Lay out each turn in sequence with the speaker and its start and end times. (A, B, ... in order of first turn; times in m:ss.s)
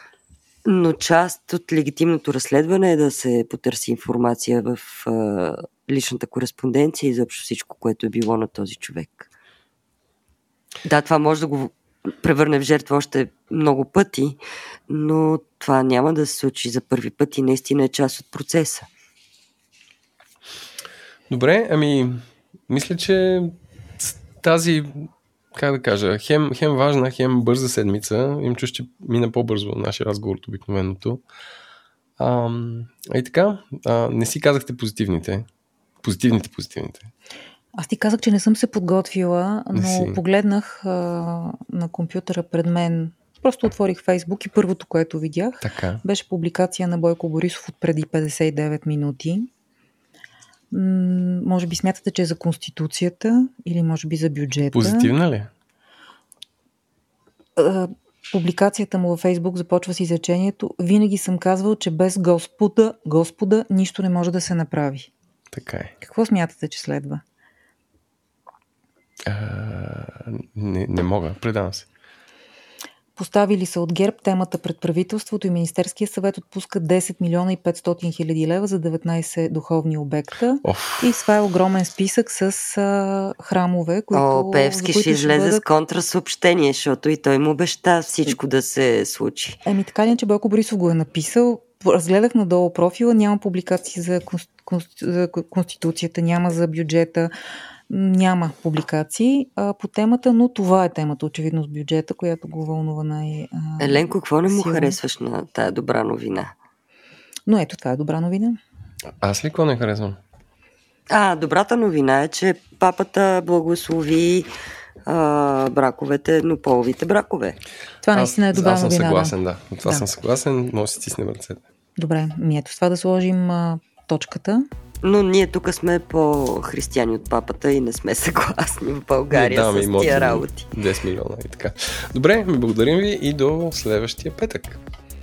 0:00.6-0:09.3 A
0:10.8-0:18.9 A
0:21.3-0:31.2 B
0:32.2-0:35.4 B
0:36.0-0:37.1 B
0:37.8-0:49.5 C
0:39.7-0:40.2 B
0:45.6-0:46.0 B
0:50.7-0:55.1 C
0:54.7-0:55.5 B
0:57.6-1:05.1 C
1:05.5-1:05.9 B
1:06.0-1:07.2 C
1:09.3-1:11.9 B
1:13.2-1:25.6 C
1:20.6-1:21.1 B
1:24.1-1:29.6 A
1:29.6-1:37.3 C
1:37.9-1:45.0 C
1:43.8-1:46.6 A
1:47.5-1:48.6 C
1:49.2-1:50.2 B
1:51.1-1:54.5 A
1:55.0-1:57.6 A
1:58.0-1:59.3 C
1:58.1-2:01.6 B
2:02.0-2:04.7 C
2:05.0-2:10.7 A
2:09.3-2:14.8 B